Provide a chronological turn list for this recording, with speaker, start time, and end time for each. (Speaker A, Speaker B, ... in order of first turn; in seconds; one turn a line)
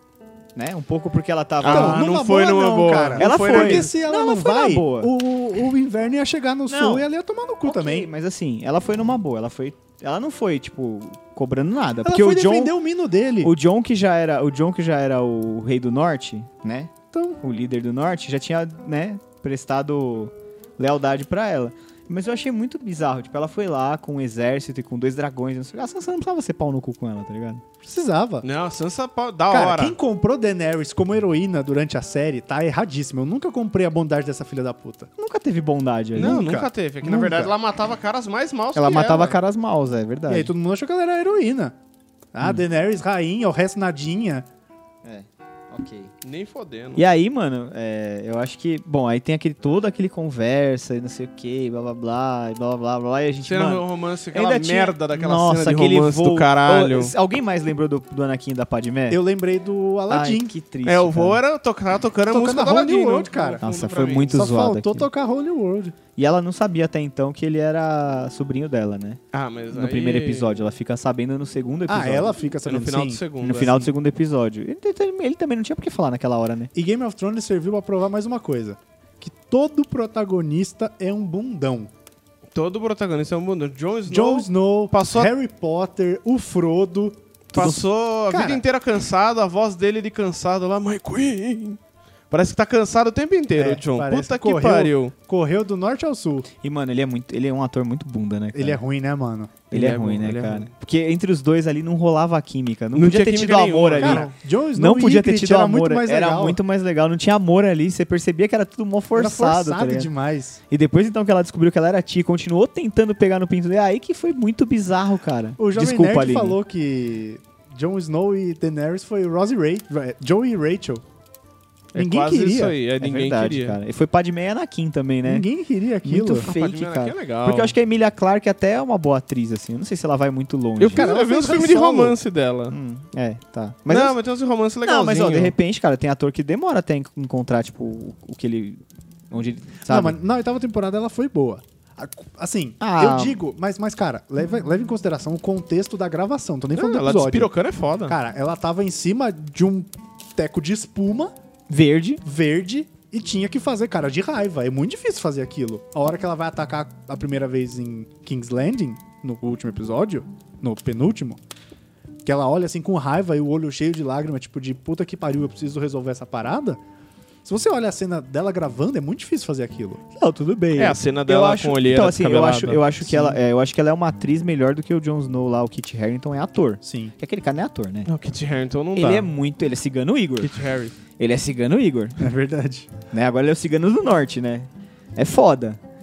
Speaker A: 0.6-2.1
Speaker B: 1.6-3.9
Speaker C: 1.6-8.1
Speaker A: 3.1-5.1
Speaker A: 6.7-7.1
Speaker A: 7.6-12.7
Speaker C: 12.0-13.5
Speaker A: 13.4-27.6
Speaker C: 17.1-17.4
Speaker C: 27.8-28.4
Speaker B: 28.4-29.9
Speaker C: 29.5-35.1
Speaker A: 35.2-36.4
Speaker B: 36.1-39.4
Speaker C: 36.2-37.5
Speaker A: 38.7-40.5
Speaker C: 40.3-41.7
Speaker C: 42.3-44.5
Speaker A: 45.0-46.1
Speaker B: 46.2-47.0
Speaker A: 47.0-59.2
Speaker B: 53.4-57.1
Speaker C: 59.1-60.5
Speaker A: 60.1-61.4
Speaker B: 60.8-64.4
Speaker C: 62.3-63.6
Speaker A: 63.6-65.1
Speaker C: 64.3-66.0
Speaker A: 66.2-69.2
Speaker B: 69.3-70.6
Speaker A: 69.7-72.5
Speaker C: 71.9-73.2
Speaker B: 72.6-73.9
Speaker A: 73.4-76.7
Speaker C: 76.7-81.9
Speaker B: 82.5-85.3
Speaker C: 84.1-87.2
Speaker A: 87.5-87.8
Speaker B: 87.5-91.8
Speaker C: 88.3-88.6
Speaker B: 92.3-95.1
Speaker C: 93.5-96.5
Speaker A: 96.6-98.8
Speaker C: 98.5-99.6
Speaker A: 99.7-110.1
Speaker B: 99.7-100.7
Speaker B: 102.9-104.3
Speaker C: 104.0-106.6
Speaker C: 109.1-110.6
Speaker A: 110.7-116.6
Speaker C: 115.6-121.0
Speaker B: 121.9-123.8
Speaker C: 121.9-122.8
Speaker A: 123.0-125.5
Speaker C: 125.2-126.5
Speaker A: 126.0-131.1
Speaker B: 126.4-127.7
Speaker B: 130.8-132.7
Speaker C: 130.9-132.2
Speaker A: 132.7-134.2
Speaker B: 133.9-135.5
Speaker A: 134.8-138.8
Speaker A: 139.3-140.2
Speaker C: 139.9-147.5
Speaker A: 142.8-143.4
Speaker B: 146.7-148.2
Speaker C: 148.1-151.3
Speaker A: 151.7-152.2
Speaker C: 152.2-161.4
Speaker C: 162.2-166.8
Speaker C: 167.4-170.0
Speaker A: 170.2-178.1
Speaker B: 170.8-172.8
Speaker C: 172.7-173.4
Speaker C: 176.8-177.1
Speaker B: 178.1-179.3
Speaker A: 178.9-180.6
Speaker B: 180.4-180.9
Speaker A: 181.1-182.3
Speaker C: 182.2-182.9
Speaker A: 183.1-185.8